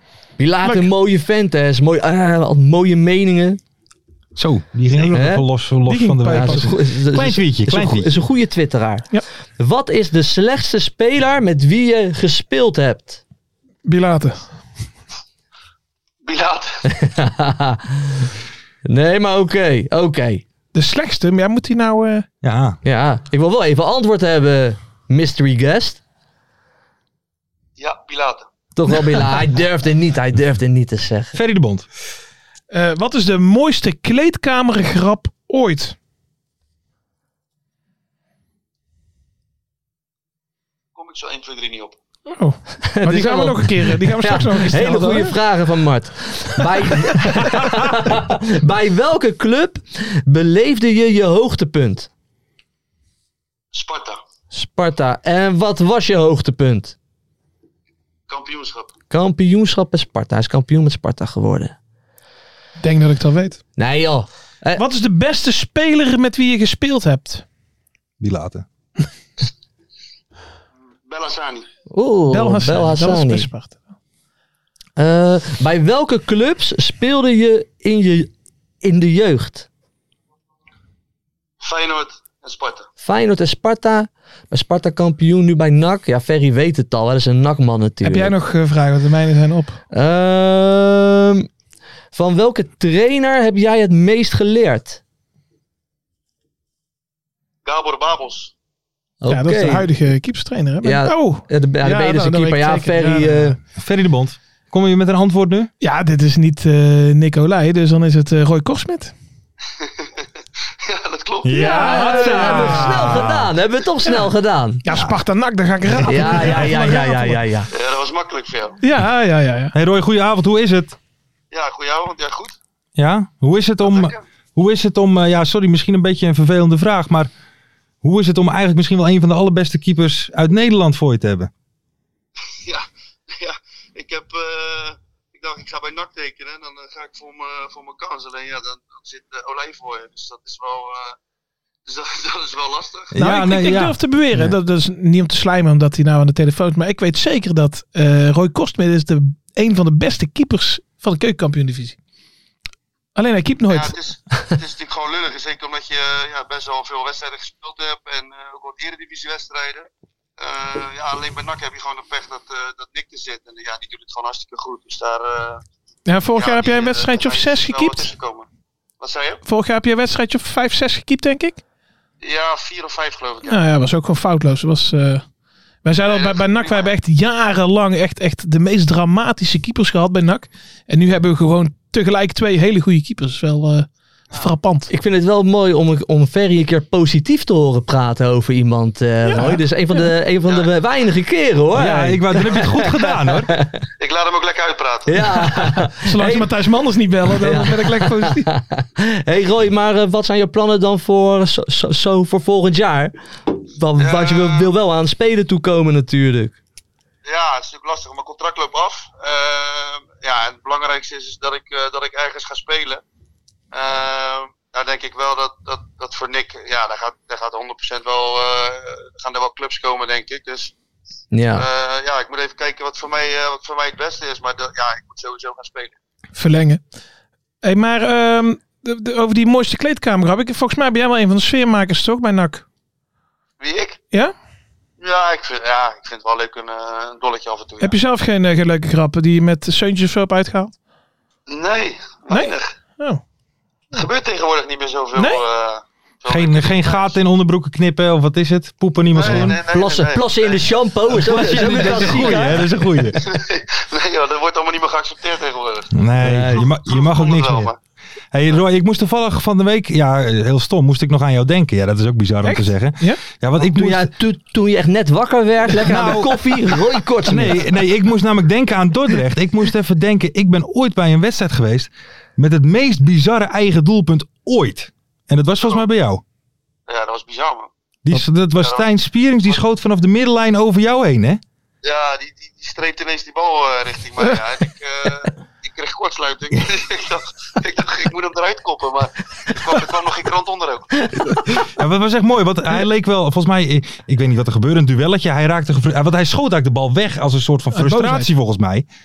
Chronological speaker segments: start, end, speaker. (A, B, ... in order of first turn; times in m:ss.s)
0:00.4-0:03.6 A
0:00.6-0:00.9 B
0:04.3-0:08.1 C
0:05.1-0:05.4 A
0:05.8-0:06.8 B
0:06.3-0:09.0 A
0:09.6-0:13.2 A
0:13.8-0:14.4 B
0:16.2-0:16.8 D
0:16.8-0:18.3 A
0:18.8-0:20.4 A
0:20.7-0:22.2 B
0:22.4-0:22.8 C
0:22.8-0:26.0 A
0:27.8-0:28.5 D
0:28.7-0:31.4 A
0:31.3-0:31.9 C
0:32.7-0:35.9 B
0:41.0-0:42.0 D
0:42.3-0:45.4 B
0:42.8-0:52.1 A
0:53.7-0:54.2 D
0:54.5-0:56.9 A
0:58.3-0:58.9 D
0:59.1-1:01.7 A
1:02.8-1:03.6 B
1:03.8-1:04.8 A
1:04.8-1:07.4 B
1:08.2-1:08.6 C
1:11.0-1:11.7 D
1:11.9-1:13.5 A
1:12.3-1:13.8 B
1:15.0-1:18.3 A
1:18.8-1:19.7 A
1:21.6-1:22.9 D
1:23.0-1:28.3 A
1:28.0-1:29.8 B
1:29.9-1:31.5 A
1:32.1-1:35.0 A
1:37.6-1:38.5 D
1:39.2-1:39.8 A
1:39.3-1:43.6 B
1:40.8-1:43.6 A
1:43.8-1:45.7 C
1:45.8-1:49.1 B
1:49.8-1:50.2 D
1:50.8-1:51.8 D
1:51.4-1:53.5 C
1:51.6-1:53.2 B
1:51.6-1:54.8 A
1:54.8-1:57.4 B
1:54.9-1:55.2 C
1:56.0-1:57.7 A
1:56.1-1:56.6 C
1:57.7-1:58.8 D
1:58.8-1:59.8 B
1:59.7-2:01.0 C
2:01.5-2:02.6 D
2:03.0-2:07.3 C
2:03.8-2:04.2 D
2:08.0-2:11.5 C
2:12.6-2:21.2 D
2:21.8-2:23.1 D
2:23.1-2:24.0 C
2:23.2-2:32.0 B
2:33.2-2:33.9 B
2:33.7-2:39.9 D
2:40.4-2:45.6 D
2:46.0-2:48.1 B
2:46.4-2:48.5 D
2:49.0-2:49.4 D
2:49.4-2:51.6 B
2:52.2-2:53.6 D
2:53.4-2:55.2 B
2:55.8-3:04.9 B
2:56.0-2:56.9 D
3:04.9-3:13.8 A
3:09.2-3:10.1 B
3:11.7-3:13.5 C
3:14.0-3:15.3 D
3:15.1-3:16.5 A
3:15.8-3:18.5 B
3:17.4-3:23.1 A
3:23.7-3:26.6 A
3:24.0-3:24.7 D
3:27.2-3:33.0 D
3:33.7-3:40.7 D
3:41.3-3:41.6 A
3:41.5-3:46.0 D
3:46.3-3:46.8 B
3:47.6-3:52.6 B
3:53.6-3:54.0 D
3:55.0-3:58.0 D
3:57.8-4:00.7 B
4:01.5-4:02.7 D
4:02.3-4:03.2 B
4:03.9-4:07.2 D
4:05.2-4:05.4 B
4:06.3-4:09.6 C
4:09.1-4:12.6 D
4:09.2-4:12.6 A
4:11.2-4:13.3 C
4:13.1-4:15.9 D
4:15.9-4:17.7 C
4:16.2-4:16.7 A
4:16.6-4:17.8 D
4:18.3-4:24.1 C
4:22.4-4:23.2 B
4:23.6-4:27.7 A
4:25.8-4:26.4 C
4:27.2-4:36.2 C
4:36.9-4:37.7 D
4:38.0-4:41.4 C
4:38.6-4:38.8 D
4:41.8-4:51.1 D
4:51.1-4:51.4 A
4:51.7-4:58.9 C
4:57.7-4:58.3 B